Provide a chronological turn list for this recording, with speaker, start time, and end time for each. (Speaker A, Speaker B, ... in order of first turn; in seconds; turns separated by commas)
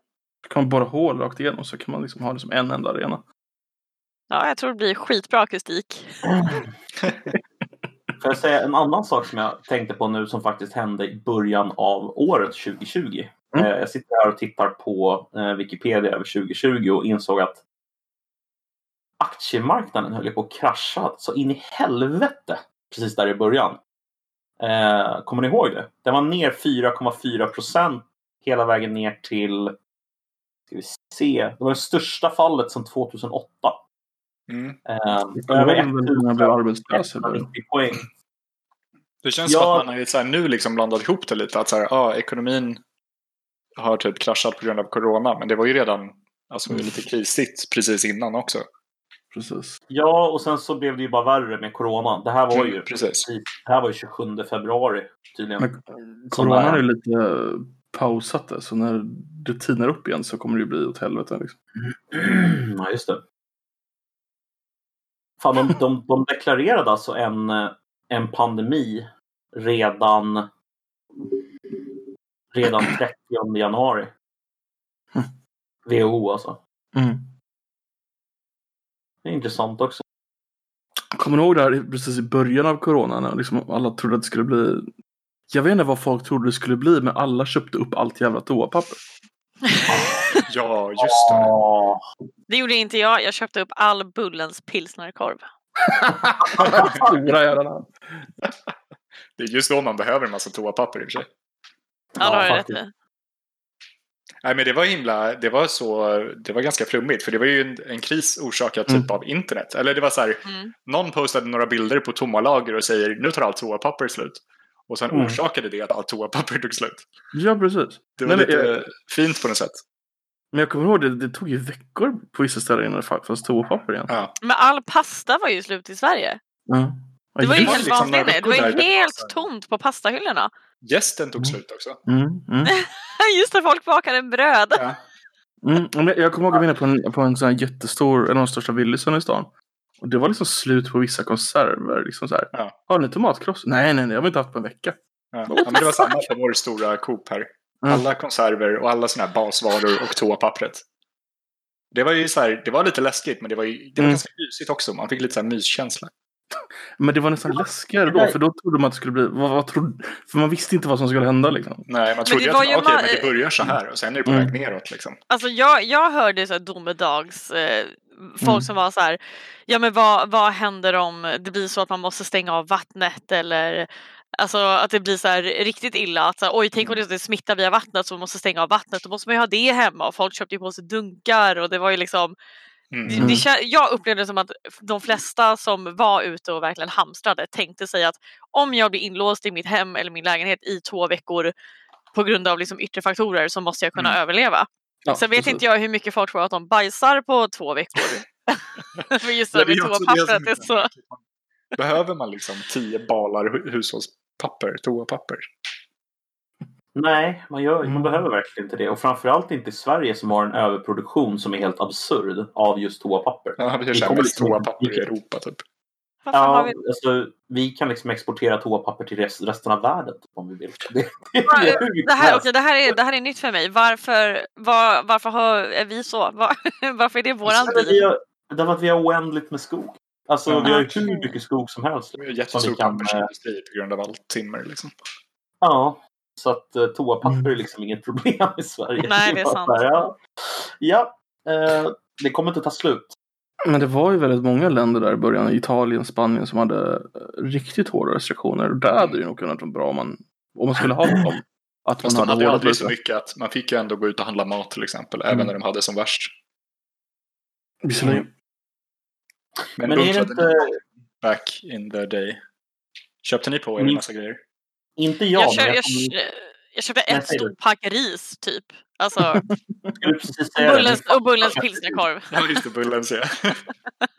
Speaker A: 0.4-3.2, Speaker B: 4.3-6.1, Speaker C: 8.2-17.6, Speaker C: 19.2-23.8, Speaker C: 24.6-29.8, Speaker C: 30.7-33.8, Speaker D: 34.5-34.8, Speaker C: 34.9-38.1, Speaker A: 35.4-37.5, Speaker D: 39.2-42.8, Speaker C: 39.5-39.9, Speaker D: 43.8-48.7, Speaker A: 49.3-49.8, Speaker C: 49.9-55.7, Speaker D: 52.5-53.3, Speaker A: 55.6-61.5, Speaker C: 56.3-56.8, Speaker C: 61.8-63.2, Speaker C: 65.4-70.5, Speaker C: 71.2-72.0, Speaker C: 72.5-74.1, Speaker C: 75.9-76.6, Speaker A: 77.0-77.3, Speaker C: 79.2-80.0, Speaker A: 81.2-84.9, Speaker A: 85.5-89.0, Speaker B: 89.7-90.4, Speaker C: 89.9-90.2, Speaker D: 90.5-91.6, Speaker C: 91.0-92.0, Speaker B: 92.5-95.5, Speaker A: 95.9-98.3, Speaker C: 96.4-97.0, Speaker D: 96.7-97.0, Speaker D: 99.4-101.3, Speaker C: 102.2-102.8, Speaker B: 102.2-102.9, Speaker D: 104.4-117.1, Speaker B: 110.5-110.7, Speaker C: 115.1-115.4, Speaker A: 117.3-118.8, Speaker D: 118.2-119.8, Speaker A: 120.5-124.1, Speaker D: 124.1-124.3, Speaker B: 124.4-126.4, Speaker A: 126.7-127.9, Speaker B: 127.4-130.5, Speaker D: 127.5-129.4, Speaker D: 130.8-132.0, Speaker A: 131.4-132.8, Speaker B: 132.7-134.8, Speaker A: 135.6-145.0, Speaker D: 145.3-150.8, Speaker A: 145.5-146.2, Speaker D: 151.9-156.1, Speaker A: 154.0-154.2, Speaker A: 157.0-161.9, Speaker C: 157.5-158.4, Speaker D: 161.9-165.2, Speaker B: 162.3-163.3, Speaker B: 165.3-182.3, Speaker D: 182.9-183.3, Speaker B: 183.1-191.5, Speaker A: 183.1-183.5, Speaker B: 192.1-200.9, Speaker A: 195.1-195.6, Speaker D: 199.5-201.2, Speaker D: 201.8-205.5, Speaker C: 206.9-215.1, Speaker A: 207.8-208.3, Speaker D: 213.6-215.6, Speaker B: 216.2-216.8, Speaker C: 216.3-222.5, Speaker B: 221.5-228.1, Speaker C: 227.5-233.3, Speaker D: 230.5-230.8, Speaker B: 230.6-231.3, Speaker D: 232.2-234.9, Speaker C: 235.6-243.2, Speaker B: 239.0-240.1, Speaker A: 243.7-252.9, Speaker D: 252.0-256.3, Speaker A: 257.8-258.3, Speaker D: 259.8-260.7, Speaker C: 259.8-260.8, Speaker D: 261.2-262.4, Speaker D: 263.2-264.4, Speaker C: 263.8-264.0, Speaker C: 265.0-266.1, Speaker B: 265.4-269.4, Speaker C: 267.1-267.6, Speaker A: 269.4-270.0, Speaker C: 270.0-272.0, Speaker B: 270.6-272.6, Speaker D: 272.3-273.6